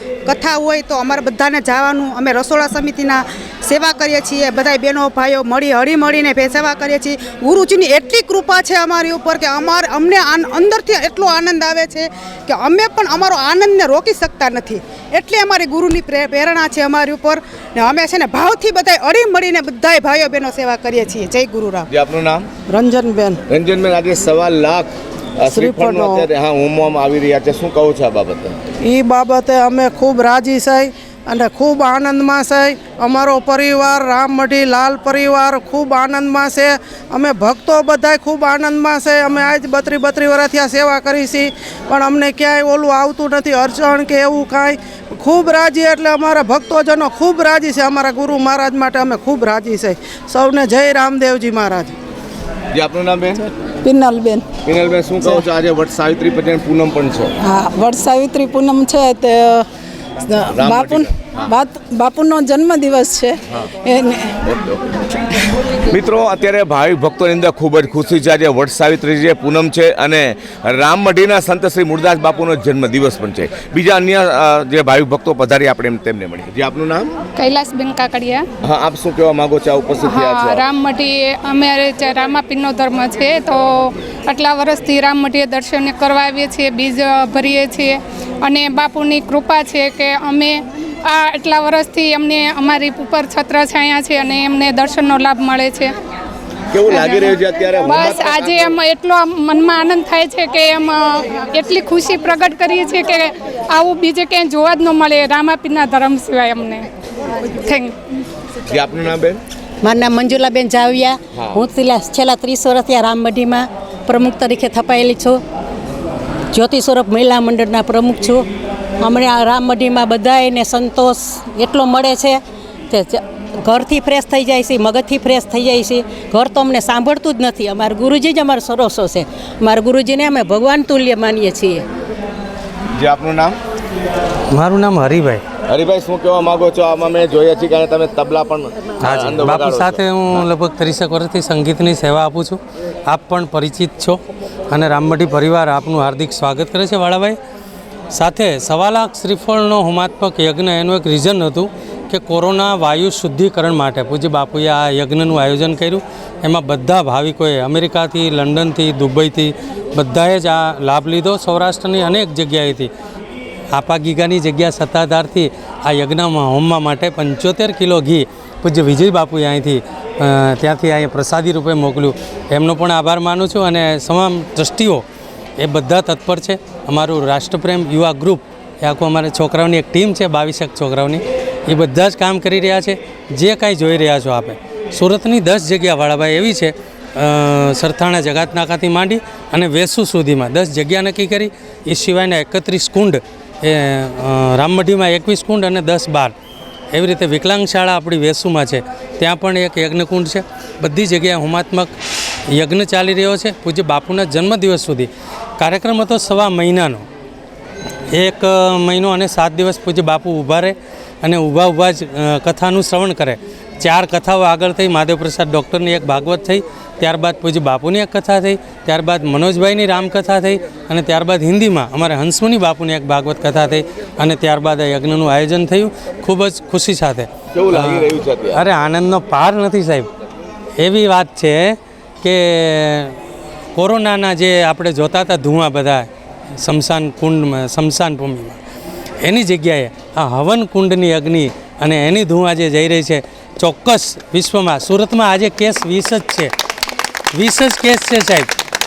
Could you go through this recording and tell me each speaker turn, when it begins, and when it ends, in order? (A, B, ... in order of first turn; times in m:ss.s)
0:00.2-0:21.9 A
0:21.9-0:22.5 B
0:22.7-0:23.4 C
0:23.5-0:28.6 B
0:25.4-0:26.2 C
0:28.8-0:51.9 C
0:52.7-0:53.4 B
0:53.8-0:54.4 D
0:54.6-0:57.3 B
0:57.4-0:59.6 D
1:00.2-1:04.3 D
1:00.5-1:01.5 B
1:04.4-1:04.8 B
1:05.8-1:17.1 B
1:17.4-1:18.4 E
1:18.6-1:20.6 B
1:20.0-1:35.9 E
1:36.7-1:38.8 B
1:36.9-1:46.9 E
1:47.5-1:48.0 E
1:48.6-1:49.4 B
1:49.8-1:55.4 F
1:51.3-1:51.6 B
1:56.5-1:58.4 F
1:59.0-2:11.8 F
2:12.9-2:13.6 B
2:14.5-2:15.4 G
2:15.6-2:20.4 B
2:19.0-2:24.2 G
2:24.7-2:27.4 G
2:28.1-2:42.9 G
2:43.7-2:55.0 G
2:55.6-3:16.3 G
3:16.9-3:21.9 G
3:22.5-3:27.0 G
3:28.1-3:50.1 G
3:47.5-3:48.6 B
3:50.8-3:53.2 G
3:53.7-3:56.1 G
3:56.6-3:58.6 G
3:59.2-4:06.5 G
4:07.3-4:08.5 G